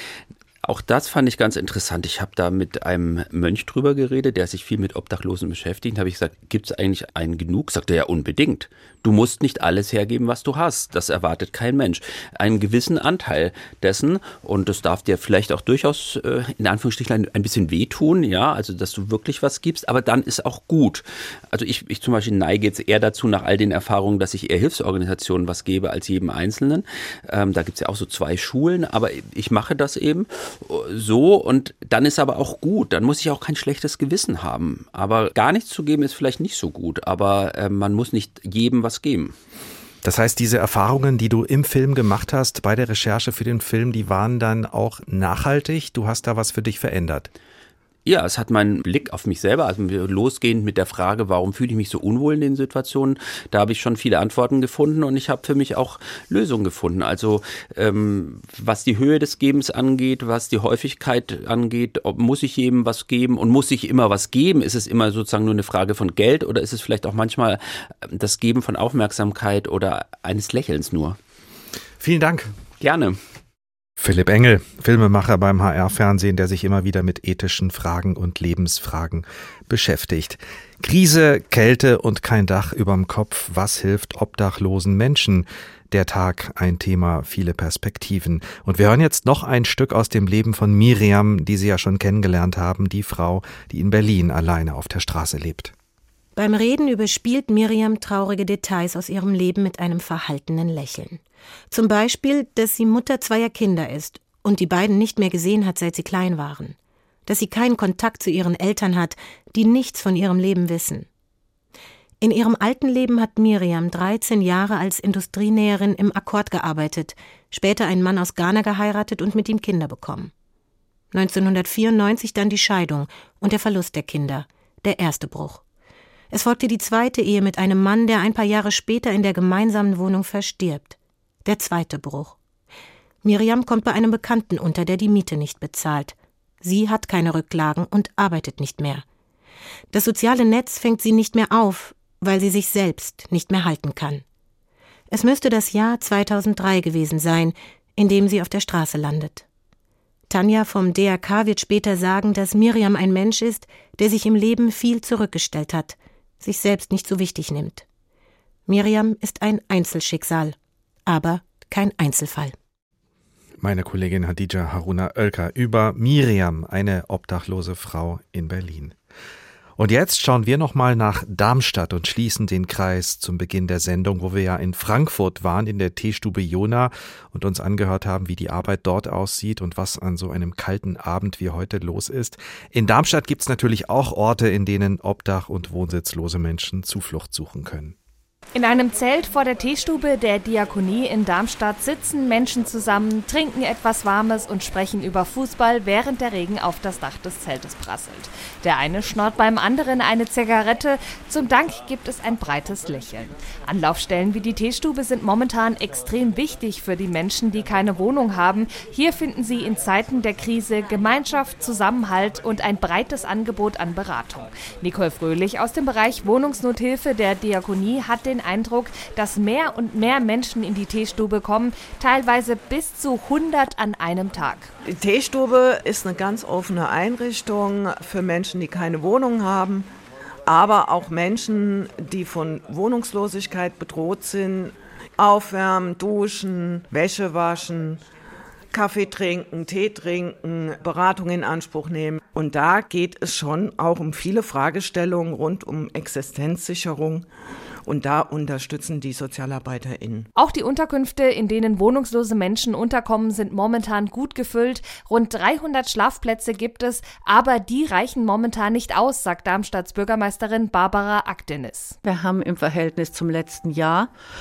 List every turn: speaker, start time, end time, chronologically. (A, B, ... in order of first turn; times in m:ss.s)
0:00.6-0:39.4 A
0:40.0-0:47.3 B
0:48.1-1:11.2 A
1:12.0-1:12.5 B
1:12.8-1:13.2 A
1:14.0-1:35.7 B
1:36.4-1:51.1 C
1:52.2-2:00.3 C
2:01.1-2:05.6 C
2:06.3-2:12.4 C
2:13.2-2:19.0 C
2:19.9-2:24.2 C
2:25.1-2:29.4 C
2:30.3-2:37.8 C
2:38.7-2:42.6 C
2:43.6-2:49.0 B
2:49.8-3:08.0 B
3:08.6-3:44.7 D
3:44.9-3:49.9 E
3:50.5-3:58.0 E
3:58.7-4:07.3 E
4:07.8-4:10.3 E
4:10.4-4:22.0 D
4:22.0-4:24.1 F